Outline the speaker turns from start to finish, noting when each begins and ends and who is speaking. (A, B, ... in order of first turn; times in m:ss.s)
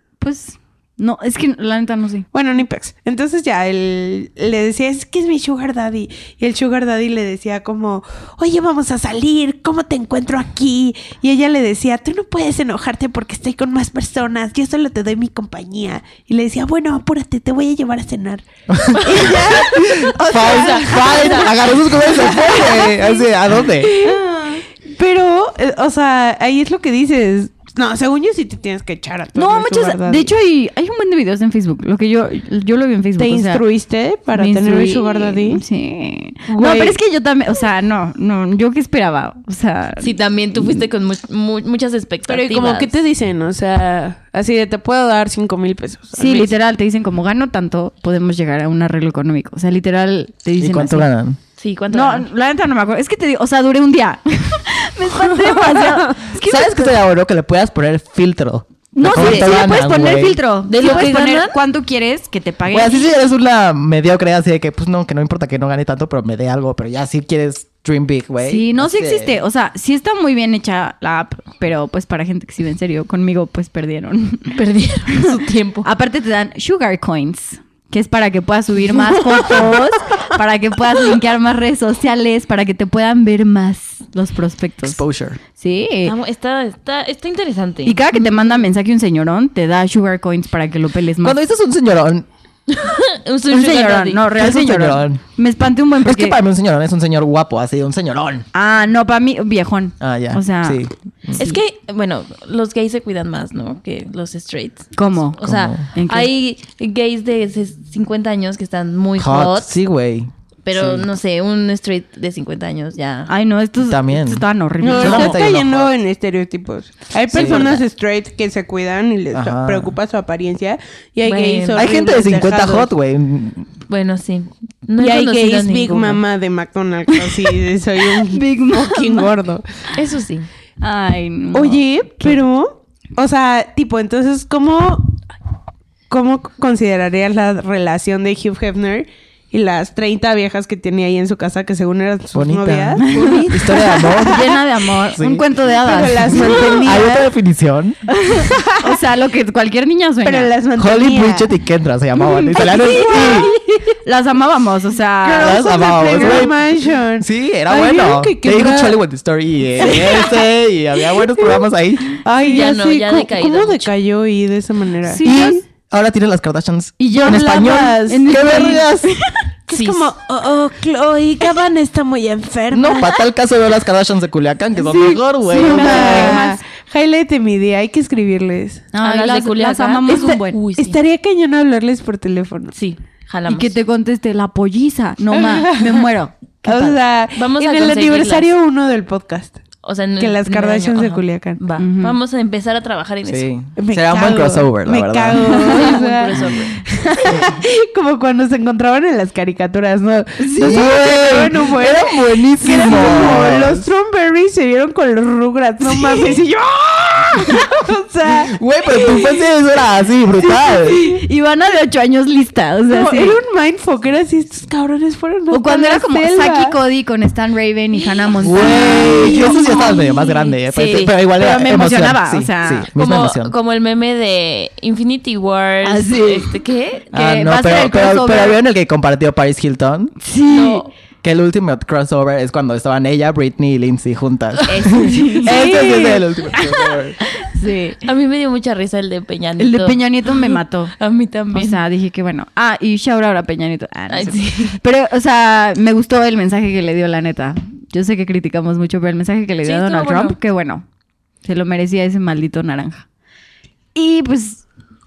0:00.2-0:02.2 A
0:02.3-0:24.2 B
0:18.7-0:24.0 C
0:20.4-0:21.6 D
0:24.0-0:24.6 A
0:24.9-0:30.3 B
0:29.4-0:33.6 A
0:33.2-0:35.6 B
0:34.3-0:40.8 A
0:36.5-0:37.0 B
0:40.0-0:42.9 D
0:42.3-0:46.5 B
0:46.2-0:51.1 A
0:50.6-0:51.4 C
0:51.6-0:52.3 D
0:51.9-0:56.9 A
0:55.4-0:56.1 B
0:56.4-1:00.4 C
0:58.9-1:03.1 A
1:00.7-1:01.6 D
1:02.7-1:09.4 C
1:08.4-1:14.6 A
1:14.5-1:15.8 D
1:15.8-1:25.0 A
1:24.8-1:25.4 C
1:25.6-1:26.1 A
1:26.0-1:28.0 D
1:27.8-1:31.4 A
1:31.2-1:32.2 C
1:32.7-1:34.3 D
1:33.5-1:36.4 A
1:34.3-1:35.2 C
1:36.0-1:38.4 C
1:38.5-1:40.8 A
1:40.0-1:41.4 C
1:41.4-1:49.7 D
1:44.9-1:45.4 A
1:45.4-1:45.8 C
1:45.9-1:46.3 A
1:49.2-1:51.1 C
1:50.6-1:53.3 D
1:53.3-1:55.4 A
1:53.8-1:55.9 C
1:54.8-2:02.9 B
1:57.3-1:57.8 D
1:57.3-1:57.8 C
1:59.3-2:00.0 C
2:01.2-2:01.9 D
2:01.7-2:03.7 C
2:03.9-2:06.2 D
2:05.0-2:09.6 B
2:08.1-2:09.3 A
2:09.9-2:10.5 D
2:10.8-2:11.8 A
2:11.5-2:15.2 B
2:16.1-2:24.6 B
2:22.3-2:24.6 C
2:23.1-2:26.9 A
2:25.1-2:25.4 C
2:25.8-2:27.3 B
2:26.2-2:28.0 C
2:28.1-2:30.5 A
2:28.4-2:29.0 B
2:30.2-2:31.5 B
2:30.8-2:33.5 C
2:32.2-2:36.5 A
2:32.9-2:33.4 B
2:35.2-2:39.0 B
2:35.3-2:36.6 C
2:37.2-2:42.2 C
2:39.8-2:40.4 B
2:42.2-2:45.5 B
2:42.4-2:43.9 D
2:45.0-2:45.6 A
2:45.2-2:49.1 C
2:47.0-2:49.4 A
2:47.2-2:48.8 B
2:49.7-2:53.2 B
2:49.7-2:50.1 D
2:52.7-2:56.5 C
2:55.0-2:56.6 A
2:55.5-2:58.9 B
2:58.9-3:00.6 A
2:59.0-3:01.0 D
3:00.1-3:02.7 B
3:02.7-3:03.7 D
3:03.5-3:07.0 A
3:05.4-3:06.1 B
3:06.6-3:09.6 B
3:07.3-3:08.5 D
3:09.8-3:13.5 D
3:10.2-3:11.6 B
3:11.8-3:12.2 A
3:13.3-3:15.6 C
3:13.8-3:29.4 B
3:15.4-3:16.8 D
3:20.4-3:21.0 A
3:20.6-3:23.9 C
3:28.5-3:31.0 C
3:30.9-3:33.4 A
3:32.9-3:36.8 B
3:35.5-3:40.5 A
3:38.4-3:43.5 C
3:38.6-3:39.0 D
3:39.1-3:40.0 B
3:40.7-3:41.1 D
3:41.3-3:42.9 A
3:42.9-3:47.1 D
3:45.8-3:46.5 A
3:47.1-3:48.6 A
3:47.1-3:50.2 C
3:50.2-3:50.8 A
3:50.5-3:50.9 D
3:51.2-3:57.2 C
3:54.6-3:55.8 D
3:54.9-3:55.7 A
3:55.5-3:56.2 B
3:57.4-3:58.0 A
3:58.0-4:01.8 D
3:59.6-4:00.9 A
4:01.5-4:10.8 A
4:04.1-4:04.8 D
4:09.6-4:10.4 D
4:11.4-4:13.0 A
4:13.9-4:14.6 A